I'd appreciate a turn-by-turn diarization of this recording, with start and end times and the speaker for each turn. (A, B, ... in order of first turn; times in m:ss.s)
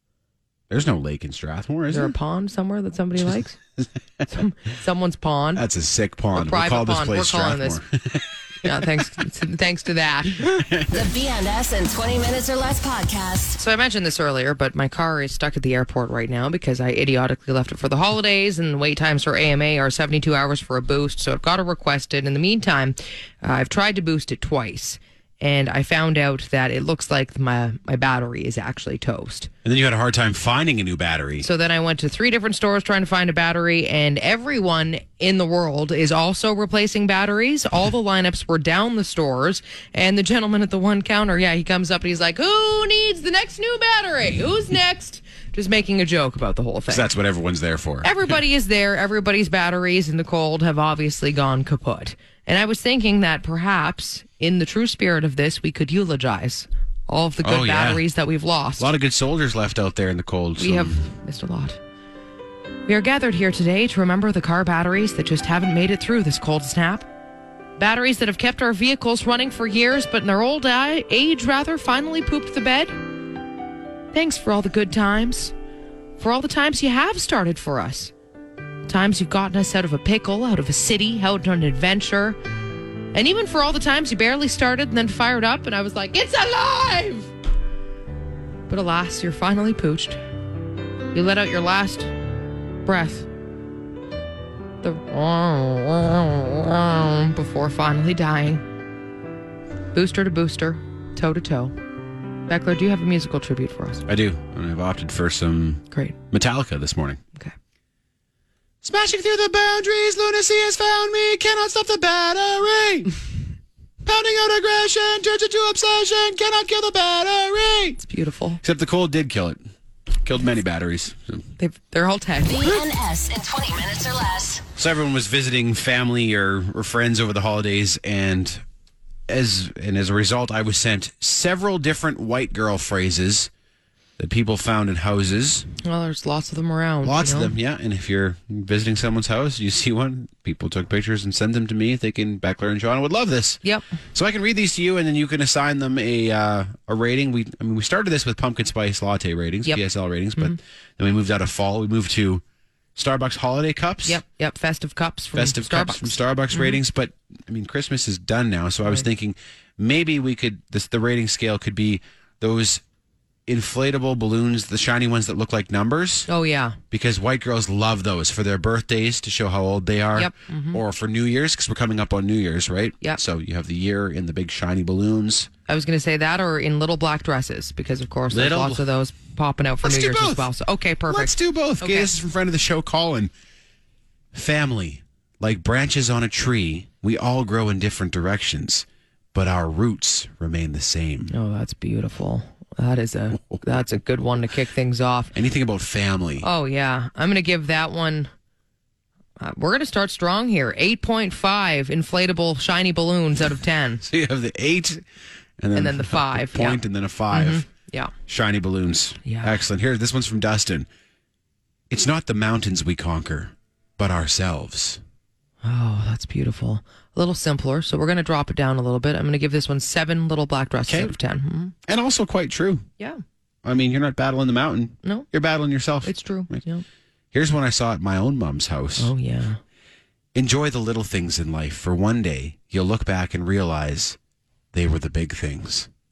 0:00.7-0:02.1 A
0:01.9-0:03.6 B
0:03.8-0:04.3 A
0:04.3-0:05.6 B
0:05.6-0:08.7 A
0:06.3-0:07.8 B
0:08.6-0:10.7 B
0:10.6-0:11.0 A
0:10.9-0:13.6 C
0:13.6-0:29.5 B
0:29.6-0:31.5 A
0:31.4-0:47.1 B
0:46.9-0:48.4 A
0:48.0-0:58.9 B
0:57.4-0:58.0 A
0:58.8-1:01.0 A
1:00.6-1:01.8 B
1:02.9-1:07.1 B
1:07.8-1:13.0 B
1:14.1-1:15.5 B
1:16.2-1:18.1 B
1:18.9-1:22.4 B
1:23.1-1:27.3 B
1:28.7-1:30.2 B
1:31.1-1:32.1 B
1:32.8-1:33.3 B
1:34.8-1:38.6 B
1:39.9-1:41.7 B
1:42.5-1:44.1 B
1:44.1-1:47.2 A
1:45.9-1:46.2 B
1:48.8-1:53.2 A
1:54.0-1:58.0 A
1:58.0-1:58.6 B
1:58.6-1:59.6 A
2:00.2-2:01.4 A
2:01.6-2:02.8 B
2:02.4-2:04.6 C
2:04.8-2:08.6 A
2:09.3-2:13.5 A
2:14.2-2:15.7 A
2:15.8-2:17.5 B
2:17.0-2:23.6 A
2:24.1-2:32.4 A
2:33.0-2:34.2 A
2:34.0-2:36.8 B
2:35.3-2:42.8 A
2:43.5-2:46.3 A
2:46.3-2:46.8 B
2:46.9-2:55.5 A
2:50.2-2:50.8 B
2:55.7-3:02.1 B
2:58.3-2:58.8 A
2:59.8-3:00.5 A
3:01.1-3:03.3 A
3:04.3-3:11.3 A
3:11.3-3:15.3 B
3:15.3-3:16.5 A
3:16.4-3:18.3 B
3:19.4-3:24.0 B
3:24.0-3:25.0 A
3:25.6-3:27.6 A
3:25.8-3:28.1 B
3:28.3-3:30.9 A
3:29.2-3:29.6 B
3:31.9-3:35.0 A
3:35.6-3:41.7 B
3:40.9-3:41.1 A
3:41.9-3:42.8 A
3:43.6-3:46.6 A
3:46.0-3:46.8 B
3:47.3-3:49.1 A
3:49.0-3:49.6 B
3:50.4-3:54.2 A
3:54.7-3:55.9 A